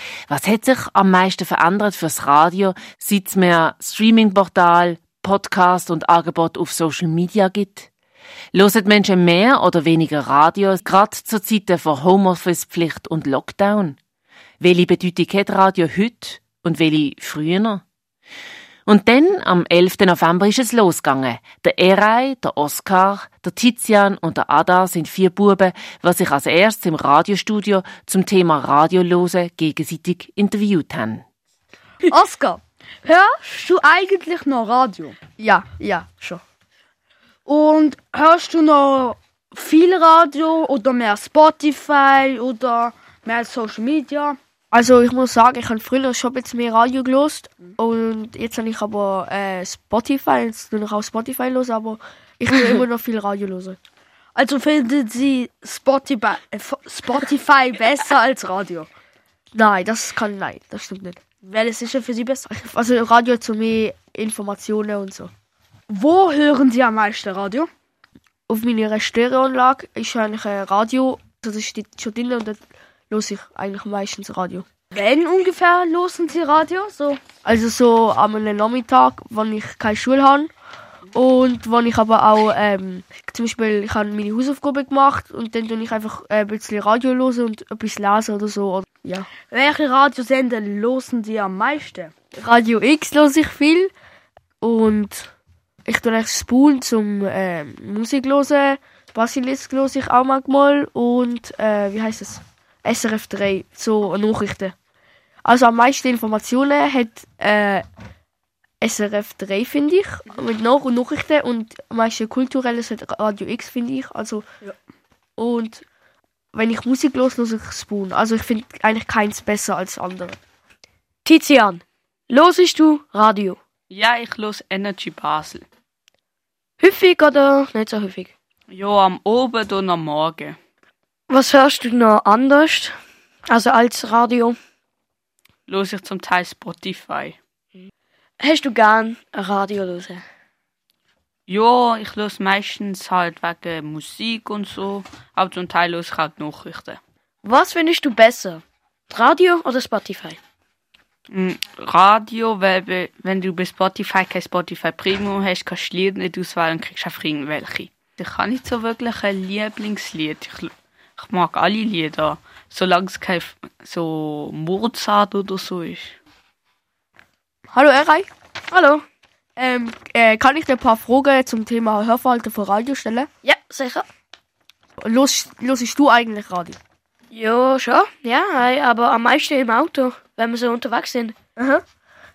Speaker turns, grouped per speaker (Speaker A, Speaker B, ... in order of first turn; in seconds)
Speaker A: 0.3-7.9, 8.5-14.0, 14.6-17.8, 18.9-31.2
Speaker B: 32.0-35.1, 37.5-44.4, 54.4-58.9, 61.4-62.4, 65.9-67.7, 74.9-77.2, 89.0-92.1
Speaker C: 35.4-36.4, 44.7-53.8, 59.5-61.2, 62.5-65.3, 68.5-74.7, 77.4-80.5, 81.2-88.9, 92.4-93.9, 94.6-95.3, 95.9-104.7, 105.5-107.8, 108.8-114.5, 115.4-115.8, 116.5-120.4, 167.7-168.3, 169.6-173.3, 175.0-176.8, 181.6-181.8
Speaker D: 121.2-123.6, 126.8-128.3, 131.3-134.6, 137.8-140.2, 147.4-150.4, 168.7-169.0, 173.4-174.1, 177.3-181.4
Speaker E: 123.9-125.7, 128.7-130.6, 135.7-137.4, 141.5-147.0, 151.3-166.2